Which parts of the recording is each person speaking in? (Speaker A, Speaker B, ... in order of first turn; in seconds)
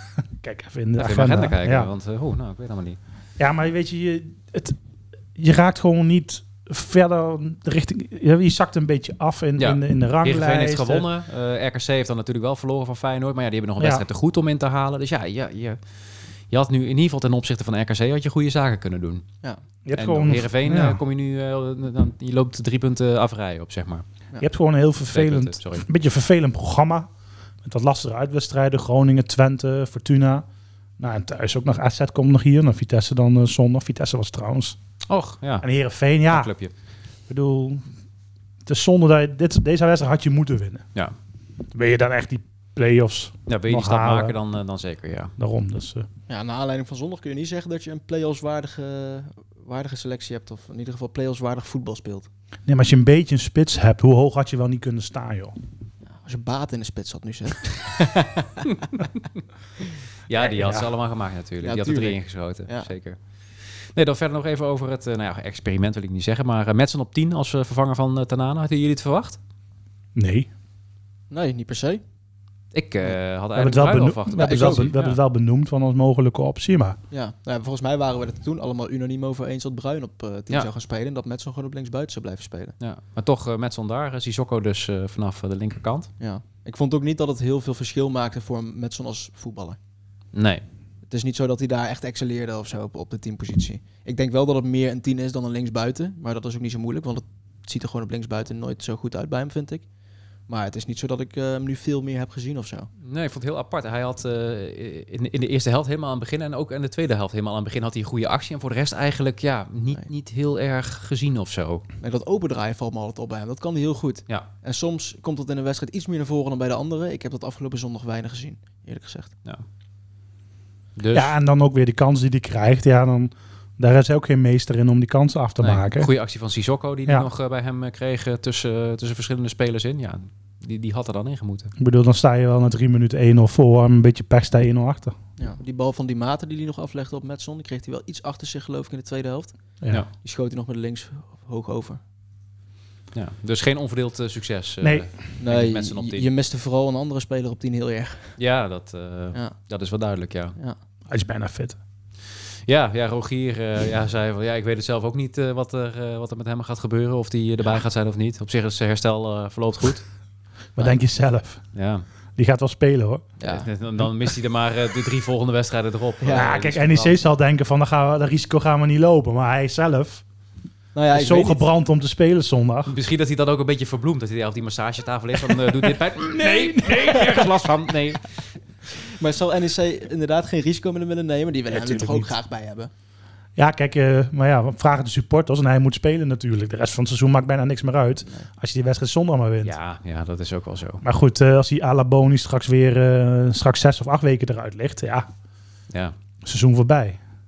Speaker A: 0.2-1.9, 3.4-4.8, 5.3-11.1, 19.9-21.0, 24.4-27.1, 27.6-30.4, 31.0-34.8, 35.6-36.5, 37.3-37.8, 38.6-40.8, 41.7-44.4, 45.4-46.1, 52.7-55.5, 60.4-60.9, 70.1-70.5, 73.5-77.0, 121.1-126.1, 131.8-135.1, 144.8-145.1, 151.1-151.8, 160.8-161.6, 162.3-163.3, 166.3-170.2, 171.1-172.9, 176.3-177.7, 181.7-182.3, 183.6-189.7, 191.0-195.3, 196.4-197.2
Speaker B: 1.0-3.0, 9.6-15.8, 16.5-19.2, 19.9-24.0, 25.1-25.9, 35.1-35.6, 36.3-36.7, 43.5-45.3, 58.6-59.4, 60.3-63.2, 63.9-69.4, 72.7-75.2, 82.8-86.1, 90.3-90.6, 103.0-111.8, 121.0-121.3, 125.6-131.7, 143.1-146.2, 148.4-150.6, 152.7-160.0, 161.7-162.1, 163.4-167.2, 172.8-178.3, 189.6-191.0
Speaker C: 46.3-52.3, 56.0-58.7, 61.6-62.9, 71.3-72.0, 74.4-74.9, 77.1-82.7, 86.2-89.8, 91.1-99.8, 100.5-102.9, 112.0-119.3, 135.4-139.5, 140.1-142.0, 145.4-148.3, 163.4-163.7, 166.2-166.5, 170.9-171.6, 178.9-182.9